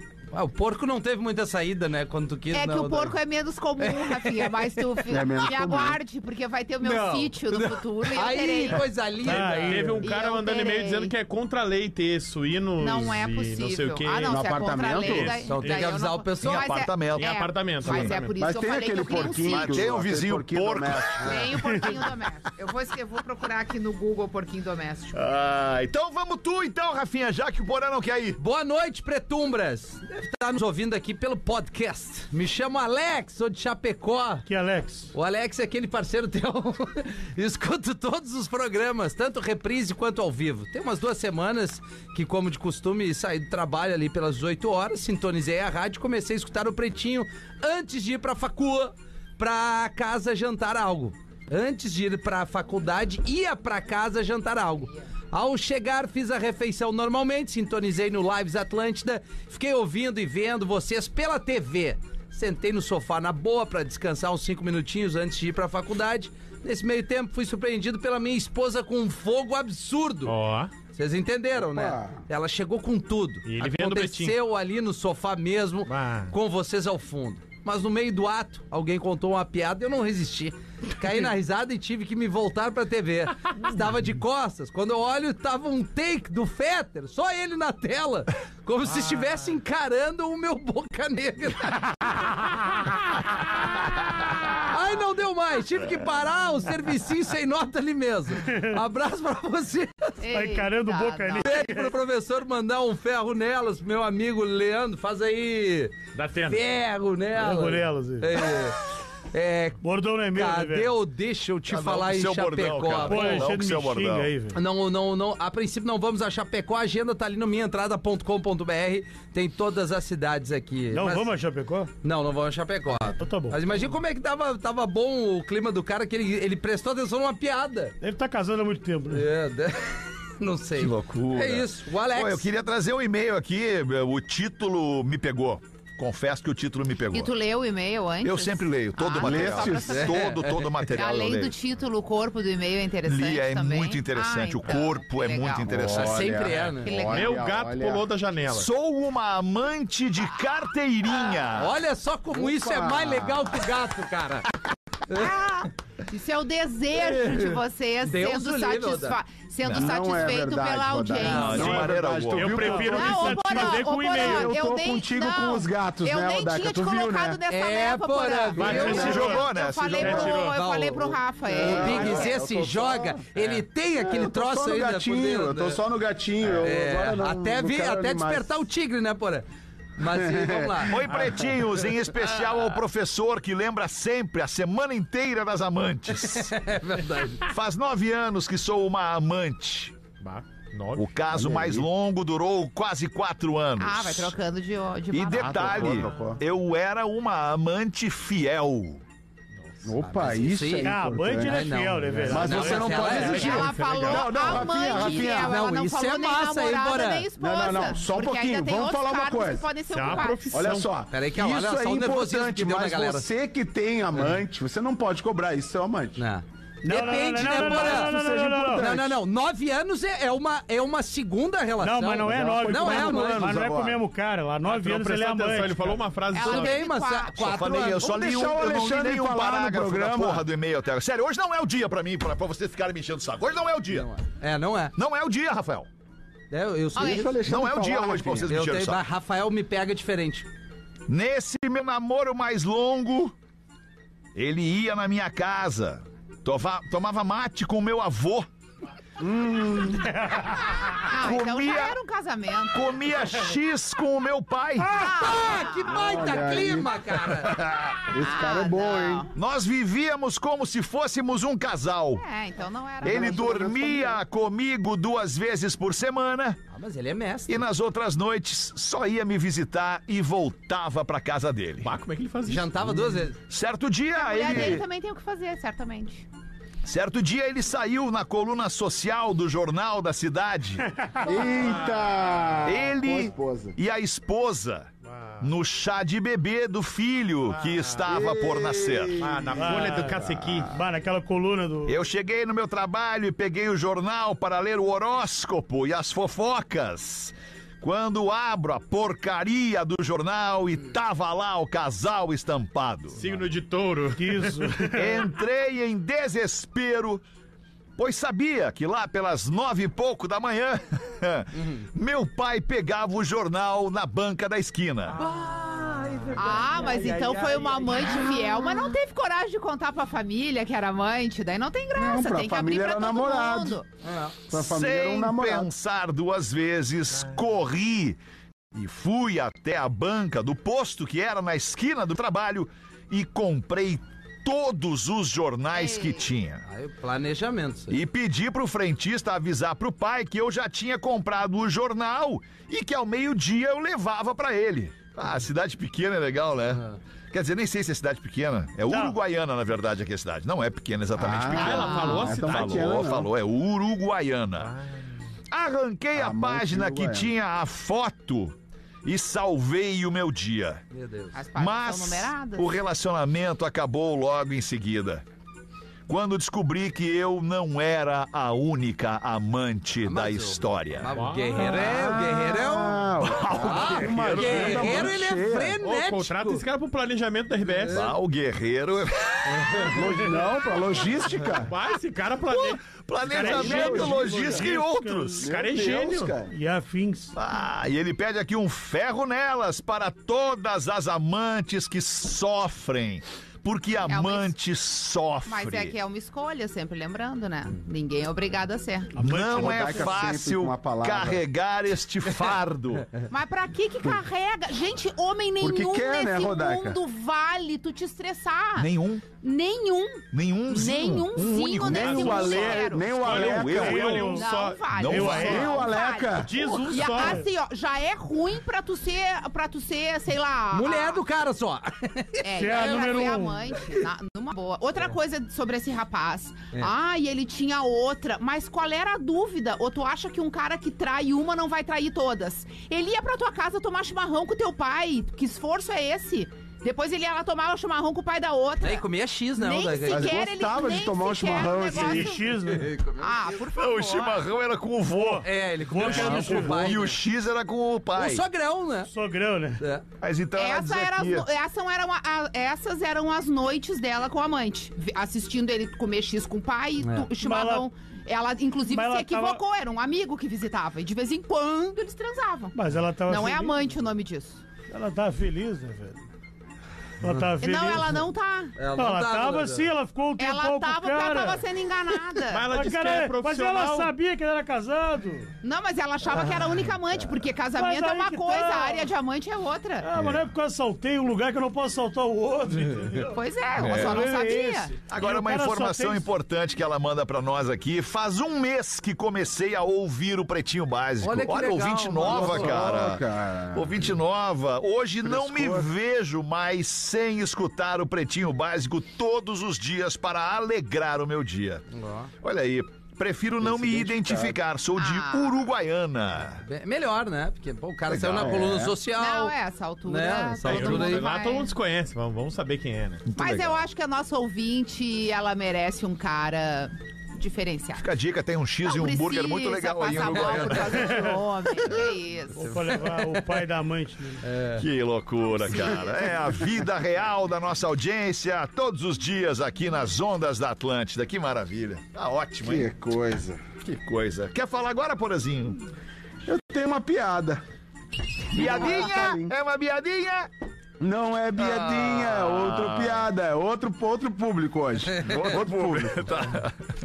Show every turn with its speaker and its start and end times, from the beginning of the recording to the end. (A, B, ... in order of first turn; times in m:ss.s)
0:00.3-0:03.2 A
0:02.5-0:11.1 B
0:03.8-0:05.2 A
0:05.1-0:06.0 C
0:06.8-0:09.9 A
0:09.2-0:10.0 D
0:09.7-0:14.4 E
0:12.8-0:19.8 B
0:14.3-0:15.4 C
0:15.0-0:16.0 E
0:15.4-0:16.8 A
0:16.4-0:17.3 F
0:17.1-0:18.3 E
0:17.8-0:18.1 F
0:18.4-0:21.5 C
0:19.3-0:21.5 F
0:21.2-0:25.2 B
0:25.1-0:28.4 F
0:28.4-0:34.4 A
0:34.4-0:35.1 D
0:35.1-1:10.3 A
1:10.2-1:10.7 E
1:10.9-1:32.4 A
1:11.6-1:12.2 C
1:13.4-1:14.4 E
1:15.8-1:16.3 E
1:34.7-1:40.2 A
1:38.4-1:38.8 D
1:40.2-1:41.8 B
1:40.3-1:41.9 D
1:41.4-1:45.9 A
1:46.1-1:46.6 E
1:46.4-1:48.8 A
1:47.4-1:48.4 D
1:49.3-1:53.5 A
1:49.8-1:51.0 D
1:51.7-1:54.3 F
1:53.0-1:54.6 D
1:54.5-2:01.3 A
2:00.9-2:01.9 D
2:02.0-2:07.9 A
2:03.2-2:03.6 D
2:08.0-2:09.3 D
2:09.1-2:12.4 A
2:10.8-2:17.3 F
2:17.1-2:20.1 B
2:18.2-2:21.5 F
2:19.2-2:20.0 C
2:19.8-2:20.8 A
2:20.9-2:26.0 B
2:23.0-2:26.2 F
2:25.6-2:28.0 C
2:25.9-2:27.1 A
2:26.5-2:28.7 E
2:26.8-2:27.4 B
2:28.5-2:31.8 F
2:31.5-2:34.5 A
2:32.3-2:33.6 C
2:35.1-2:35.4 A
2:35.1-2:41.8 B
2:37.0-2:39.2 A
2:39.7-2:47.4 C
2:41.2-2:41.8 A
2:41.3-2:42.6 F
2:41.5-2:44.5 E
2:42.5-2:43.0 D
2:42.8-2:52.4 B
2:47.5-2:49.3 A
2:48.5-2:50.6 E
2:48.8-2:50.0 F
2:50.0-2:55.8 A
2:51.5-2:58.6 C
2:56.6-2:59.4 A
3:00.0-3:01.0 A
3:00.0-3:01.3 C
3:00.9-3:06.5 F
3:01.1-3:01.7 E
3:06.3-3:07.5 A
3:07.4-3:09.9 F
3:10.2-3:11.1 E
3:11.0-3:14.3 F
3:11.3-3:11.9 C
3:13.8-3:16.1 B
3:15.1-3:19.0 F
3:15.4-3:16.4 E
3:15.4-3:16.4 C
3:19.8-3:25.6 C
3:20.0-3:23.6 A
3:20.8-3:23.2 D
3:22.7-3:24.4 E
3:22.9-3:30.6 B
3:24.5-3:27.3 A
3:27.4-3:36.2 C
3:29.9-3:30.9 E
3:31.1-3:33.3 A
3:36.2-3:38.2 A
3:36.8-3:38.8 D
3:37.2-3:39.2 C
3:38.7-3:43.6 A
3:41.8-3:46.0 D
3:42.2-3:44.0 C
3:44.6-3:46.8 E
3:46.3-3:47.9 B
3:46.3-3:48.1 A
3:47.4-3:54.1 F
3:48.0-3:50.5 C
3:53.9-3:54.9 A
3:55.0-3:55.9 F
3:56.5-3:57.5 A
3:57.0-3:58.5 C
3:57.0-3:57.2 B
3:57.4-3:59.0 F
3:58.4-4:00.5 A
4:01.1-4:03.3 F
4:04.3-4:08.5 F
4:09.2-4:10.1 C
4:11.0-4:12.9 B
4:11.1-4:12.0 F
4:12.7-4:15.0 F
4:14.9-4:16.3 B
4:15.0-4:17.6 A
4:15.9-4:16.9 C
4:18.0-4:19.3 C
4:18.1-4:19.3 B
4:19.3-4:22.2 F
4:22.2-4:23.5 B
4:23.0-4:24.2 C
4:23.0-4:26.6 F
4:26.7-4:27.6 A
4:27.5-4:31.9 F
4:31.8-4:33.3 E
4:32.4-4:33.4 A
4:33.5-4:34.8 F
4:34.1-4:36.2 B
4:36.8-4:40.8 F
4:40.8-4:41.4 D
4:41.2-4:43.8 C
4:41.6-4:42.1 E
4:42.6-4:49.4 F
4:45.0-4:45.5 E
4:47.5-4:48.1 E
4:48.0-4:50.7 C
4:49.2-4:50.8 E
4:49.6-4:52.0 D
4:51.8-5:03.2 F
5:03.2-5:04.8 E
5:04.1-5:05.3 D
5:05.0-5:07.2 F
5:08.0-5:15.2 F
5:15.1-5:18.4 A
5:16.3-5:23.8 B
5:21.9-5:23.8 C
5:24.0-5:24.4 A
5:24.5-5:25.7 C
5:24.5-5:28.2 F
5:28.7-5:36.6 F
5:35.7-5:36.3 B
5:36.6-5:38.0 A
5:37.9-5:54.7 F
5:46.7-5:47.0 A
5:48.9-5:49.2 D
5:51.1-5:53.3 C
5:51.5-5:52.9 E
5:51.6-5:52.2 B
5:55.5-6:00.8 F
5:56.1-5:57.3 C
6:00.9-6:01.3 A
6:01.3-6:02.7 B
6:01.6-6:05.2 F
6:06.1-6:11.1 F
6:10.0-6:16.6 A
6:11.1-6:11.9 E
6:11.6-6:15.8 C
6:13.2-6:15.1 F
6:14.4-6:15.1 E
6:15.8-6:18.1 E
6:17.8-6:18.2 A
6:17.9-6:19.9 F
6:19.6-6:19.8 E
6:19.9-6:21.7 C
6:21.7-6:24.6 E
6:22.5-6:25.4 F
6:23.3-6:25.4 D
6:23.3-6:24.4 C
6:25.4-6:26.5 C
6:25.4-6:26.3 E
6:26.5-6:27.3 D
6:27.3-6:35.9 F
6:34.0-6:34.5 B
6:35.4-6:39.1 B
6:39.1-6:40.2 D
6:39.2-6:43.1 F
6:39.5-6:41.4 C
6:43.3-6:53.1 B
6:45.6-6:47.0 C
6:48.8-6:49.2 F
6:50.3-6:54.4 F
6:51.8-6:54.0 C
6:53.2-6:55.7 E
6:53.7-6:54.5 D
6:54.3-7:01.2 B
6:54.9-6:55.6 F
6:55.1-6:55.8 D
6:55.4-6:56.5 C
6:56.3-6:57.4 E
6:57.1-6:57.4 D
7:00.7-7:02.4 A
7:02.4-7:19.0 B
7:02.5-7:03.7 D
7:18.8-7:20.4 A
7:19.6-7:22.5 B
7:20.1-7:22.3 C
7:21.9-7:22.9 D
7:22.7-7:23.3 A
7:23.2-7:24.4 B
7:23.7-7:25.4 F
7:25.0-7:26.9 D
7:25.4-7:27.2 A
7:26.0-7:26.3 E
7:26.5-7:28.4 F
7:28.1-7:29.1 A
7:29.1-7:29.8 D
7:29.8-7:30.0 A
7:30.2-7:31.5 F
7:30.6-7:44.6 B
7:37.0-7:37.3 A
7:37.4-7:37.8 D
7:38.8-7:39.6 D
7:42.7-7:43.7 D
7:44.9-7:46.2 D
7:47.2-7:48.2 D
7:47.2-7:47.5 A
7:47.6-7:48.8 B
7:48.8-7:49.9 A
7:48.9-7:51.6 D
7:50.4-7:52.7 B
7:52.5-7:54.1 E
7:52.7-7:55.5 D
7:55.6-8:00.1 B
7:57.8-7:59.1 D
8:00.0-8:06.3 D
8:00.1-8:00.4 F
8:03.2-8:04.9 B
8:03.8-8:04.2 F
8:05.1-8:13.2 F
8:11.2-8:12.9 A
8:12.2-8:14.2 C
8:13.7-8:21.8 F
8:15.2-8:15.9 C
8:21.9-8:22.3 A
8:22.4-8:26.6 F
8:23.6-8:24.6 C
8:25.0-8:25.6 B
8:26.6-8:29.5 A
8:28.1-8:28.8 F
8:28.3-8:28.9 C
8:29.1-8:31.7 B
8:30.0-8:31.3 A
8:30.6-8:33.2 E
8:33.2-8:33.8 F
8:33.4-8:38.1 B
8:38.0-8:41.1 F
8:38.8-8:42.8 B
8:40.3-8:40.8 A
8:40.9-8:41.4 D
8:41.8-8:42.1 F
8:42.6-8:44.4 D
8:42.6-8:43.4 A
8:44.4-8:44.8 A
8:44.8-8:52.9 F
8:52.6-8:53.6 C
8:53.8-8:55.8 F
8:56.4-8:57.6 C
8:58.5-9:00.5 F
8:58.5-8:59.5 C
9:01.0-9:06.4 C
9:01.6-9:03.2 F
9:05.2-9:06.8 F